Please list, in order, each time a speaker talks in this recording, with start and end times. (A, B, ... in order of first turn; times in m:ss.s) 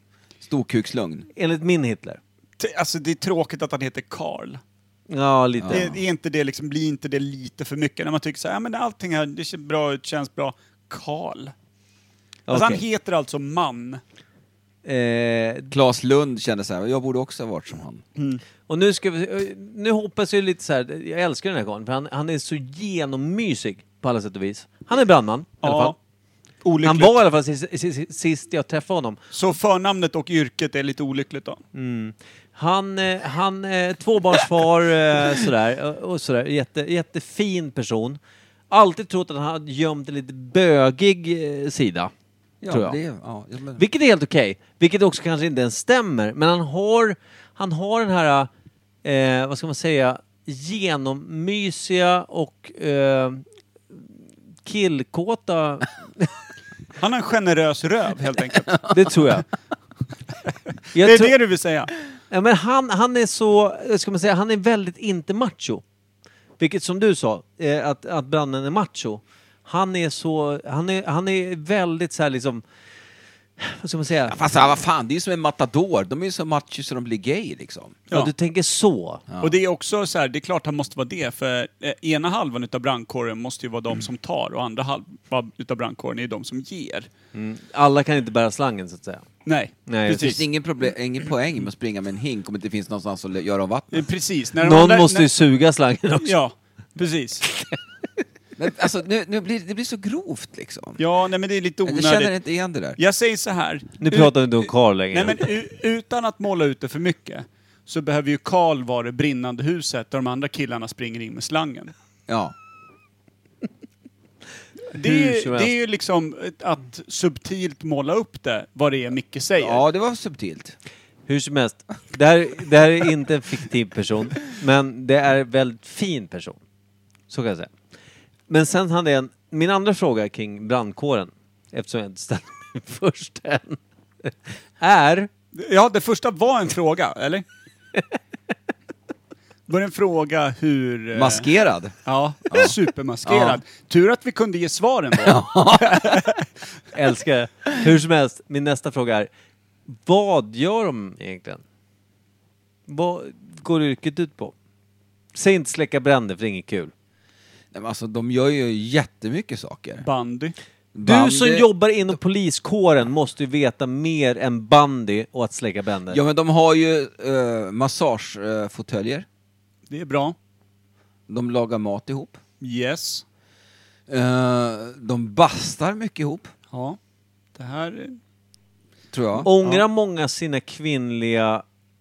0:00.4-0:01.3 A
0:01.3-0:02.2 B
0:02.6-0:04.6 C
0:05.1-0:05.9 B
0:05.6-0:06.0 A
0:05.7-0:11.5 C
0:12.5-0:12.8 B
0:12.5-0:14.0 C
0:14.8-0:15.7 B
0:15.7-0:18.0 A
0:18.2-0:18.4 C
0:18.7-0:26.0 B
0:25.6-0:26.0 C
0:26.6-0:27.2 C
0:26.8-0:29.2 B
0:29.3-0:31.6 C
0:31.7-0:38.2 B
0:38.7-0:42.1 B
0:42.6-0:43.8 A
0:42.7-0:43.0 B
0:43.8-0:48.5 B
0:49.0-0:54.1 B
0:54.6-0:56.3 B
0:57.0-0:58.9 C
0:58.9-0:59.4 B
1:00.9-1:01.3 B
1:01.0-1:01.9 C
1:02.3-1:05.8 B
1:06.6-1:12.6 B
1:13.6-1:14.5 B
1:14.3-1:18.0 A
1:18.1-1:19.2 B
1:19.3-1:19.5 A
1:19.4-1:27.1 C
1:27.3-1:29.2 B
1:29.4-1:30.4 C
1:29.9-1:30.4 B
1:30.2-1:34.0 A
1:33.9-1:35.3 C
1:34.6-1:36.4 B
1:36.2-1:37.4 C
1:38.6-1:41.0 A
1:41.0-1:42.3 C
1:41.8-1:43.0 A
1:43.0-1:51.9 C
1:44.0-1:45.4 B
1:52.3-1:52.5 A
1:54.9-1:59.8 C
1:54.9-1:55.7 B
1:59.6-2:00.7 A
2:01.3-2:06.6 B
2:07.3-2:07.7 B
2:08.5-2:15.3 B
2:15.6-2:17.4 C
2:19.7-2:21.5 C
2:21.1-2:21.9 A
2:22.0-2:26.4 C
2:22.5-2:23.6 A
2:25.2-2:26.3 A
2:26.9-2:29.3 B
2:29.9-2:31.6 B
2:32.9-2:34.5 B
2:35.3-2:36.9 B
2:37.7-2:40.0 A
2:40.0-2:40.6 C
2:40.9-2:41.7 A
2:41.0-2:46.2 B
2:46.1-2:49.2 A
2:49.9-2:50.3 C
2:51.3-2:52.4 A
2:52.6-2:53.2 C
2:54.1-2:56.5 A
2:56.7-2:57.0 C
2:57.6-2:58.2 C
2:59.1-2:59.5 A
2:59.4-3:01.6 B